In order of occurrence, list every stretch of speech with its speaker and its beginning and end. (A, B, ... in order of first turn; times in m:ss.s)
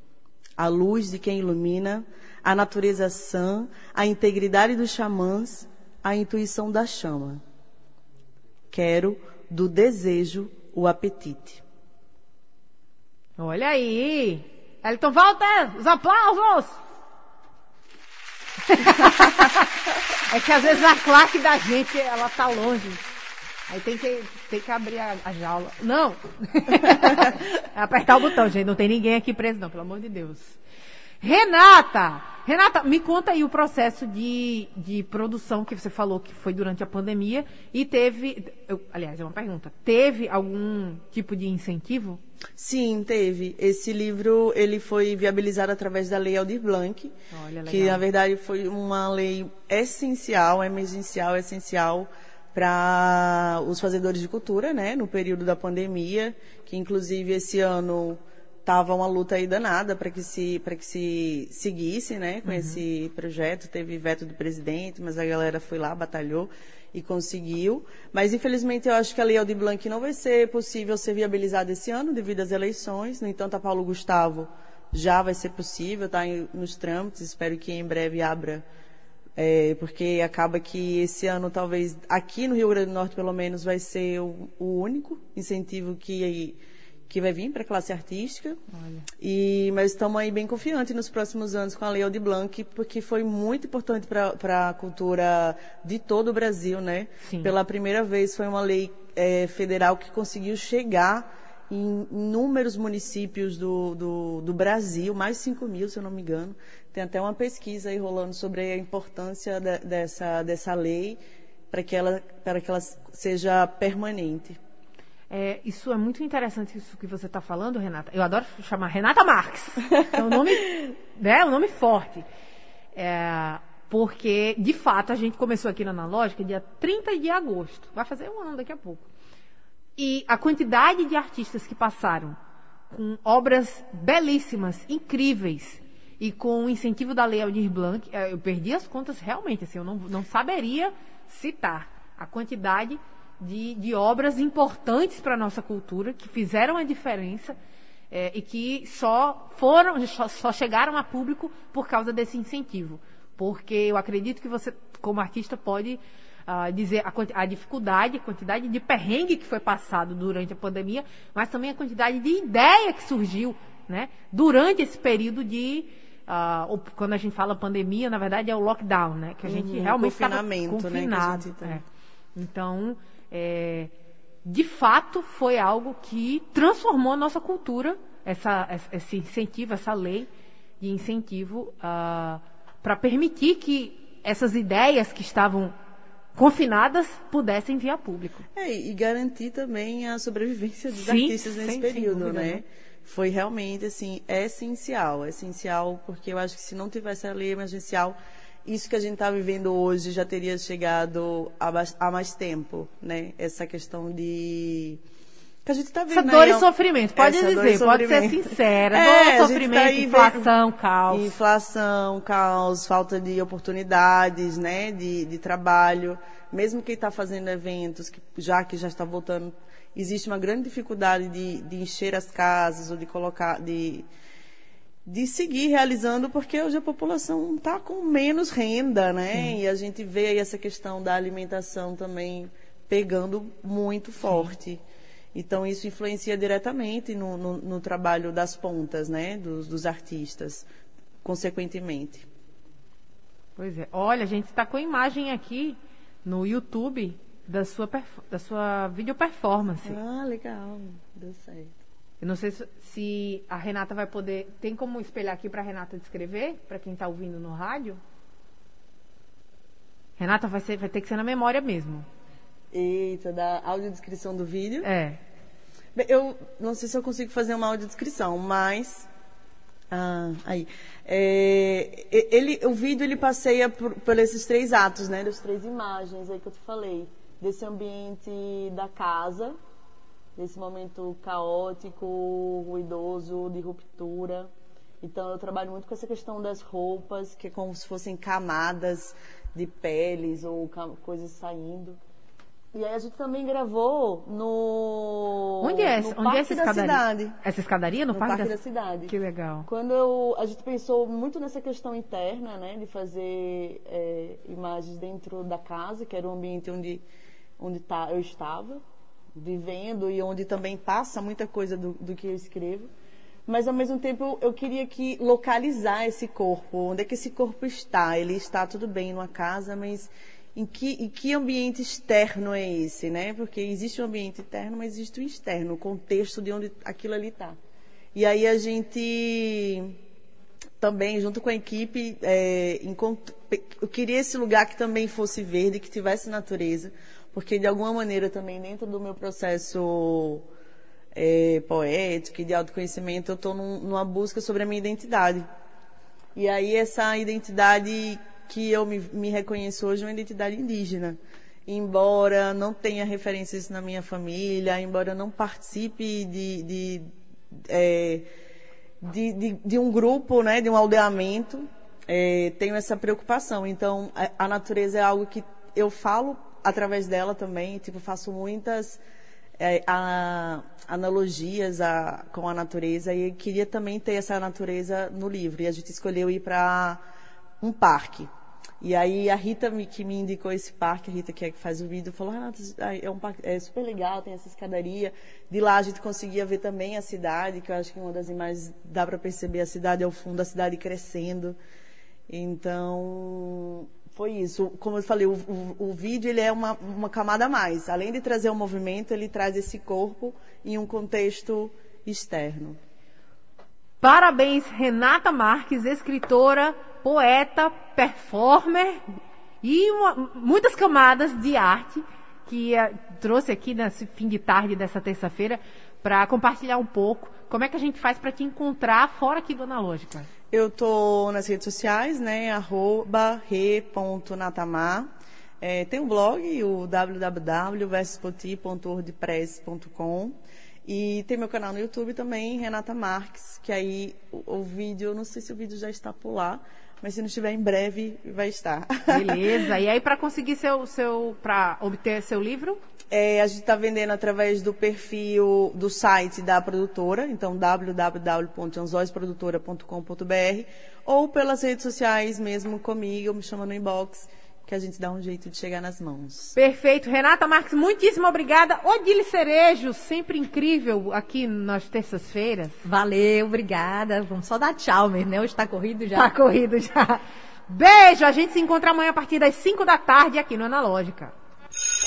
0:00.6-0:07.4 A
0:08.7-0:11.6 A
0:13.4-0:16.8 B
0:18.7-0:19.7 B
0:20.3-0:23.0 B
0:23.7-0:30.6 B
0:31.2-0:42.2 B
0:42.6-0:47.1 A
0:47.3-0:48.0 B
0:47.7-1:18.6 A
1:02.4-1:02.8 B
1:19.4-1:28.6 A
1:28.7-1:29.0 B
1:29.2-1:51.2 A
1:37.2-1:37.5 B
1:51.7-1:54.6 A
1:55.3-2:02.3 B
2:03.0-2:09.1 B
2:10.0-2:12.4 B
2:12.9-2:27.6 B
2:28.1-2:51.8 B
2:49.4-2:51.8 A
2:52.4-2:53.9 B
2:54.4-3:00.3 B
3:00.8-3:05.7 B
3:06.4-3:08.5 B
3:08.6-3:25.0 A
3:10.9-3:12.6 B
3:25.6-3:30.5 A
3:26.1-3:31.3 B
3:31.1-3:44.1 A
3:45.1-3:54.8 A
3:54.2-3:54.5 B
3:55.3-4:00.7 A
4:01.2-4:02.3 A
4:03.6-4:10.0 B
4:09.8-4:11.8 A
4:12.2-4:18.0 B
4:20.2-4:22.1 B
4:22.7-4:24.9 A
4:24.8-4:25.2 B
4:26.0-4:29.1 A
4:29.9-4:39.6 A
4:40.4-4:52.0 A
4:52.7-4:57.4 A
4:55.6-4:58.6 B
4:58.1-4:59.1 A
4:59.1-4:59.7 B
4:59.7-5:07.0 A
5:07.6-5:08.8 A
5:09.4-5:12.9 A
5:13.5-5:27.6 A
5:28.2-5:30.0 A
5:30.8-5:40.4 A
5:41.1-5:45.5 A
5:46.4-5:58.3 A
5:59.0-6:09.0 A
6:09.6-6:17.0 A
6:17.6-6:18.3 A
6:18.8-6:31.6 A
6:32.3-6:42.8 A
6:44.0-6:49.0 B
6:49.6-7:00.3 B
7:00.5-7:19.6 A
7:19.1-7:22.8 B
7:23.1-7:36.6 A
7:36.6-7:42.8 B
7:42.8-7:46.4 C
7:46.2-7:51.3 B